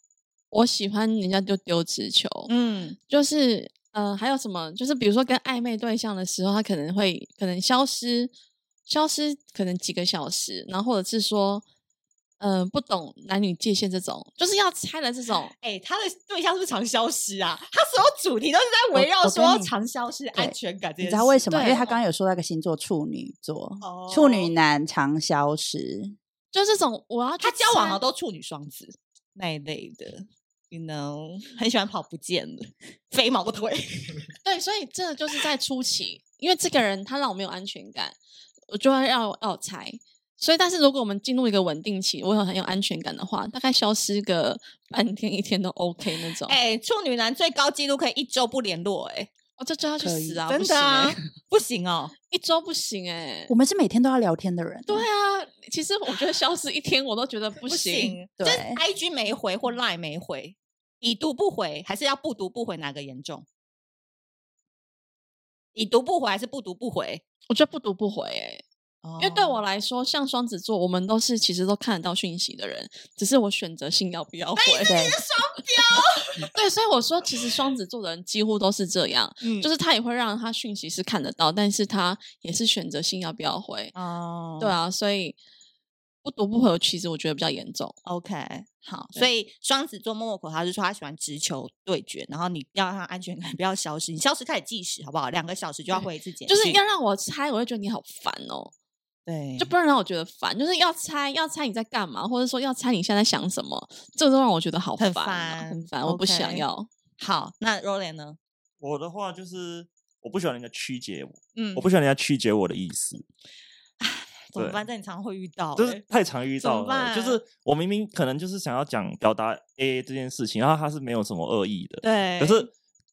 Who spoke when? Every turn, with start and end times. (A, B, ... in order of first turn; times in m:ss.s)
0:00.5-0:02.5 A
0:02.5-0:03.0 B
0:03.1-0:08.3 A
0:08.9-0:11.6 A
0:12.4-0:15.5 A
0:15.6-0:22.0 B
0:18.9-0:19.7 C
0:20.3-0:26.1 C
0:21.5-0:21.8 A
0:23.8-0:24.5 B
0:26.5-0:28.0 A
0:27.4-0:34.3 B
0:34.4-0:38.2 A
0:38.7-0:46.6 A
0:46.5-0:49.3 B
0:49.6-0:51.2 A
0:50.0-0:50.4 C
0:50.5-0:52.1 B
0:52.3-0:53.5 A
0:53.5-0:55.1 C
0:54.9-0:58.2 A
0:57.6-1:03.4 B
0:58.4-0:58.8 C
1:05.7-1:07.2 B
1:07.5-1:08.6 A
1:09.0-1:09.6 B
1:09.2-1:15.1 A
1:14.6-1:16.5 B
1:14.8-1:15.2 C
1:16.4-1:23.9 A
1:19.4-1:19.7 B
1:23.9-1:24.8 B
1:24.6-1:25.4 A
1:26.2-1:27.9 A
1:28.0-1:36.8 B
1:35.9-1:38.7 A
1:39.3-1:39.7 B
1:39.6-1:46.9 A
1:45.0-1:46.6 B
1:47.2-1:48.4 B
1:48.8-1:53.2 D
1:51.5-1:51.8 B
1:54.0-1:56.0 B
1:54.6-1:54.8 D
1:55.8-2:02.7 D
1:56.6-1:57.4 B
2:02.0-2:02.7 B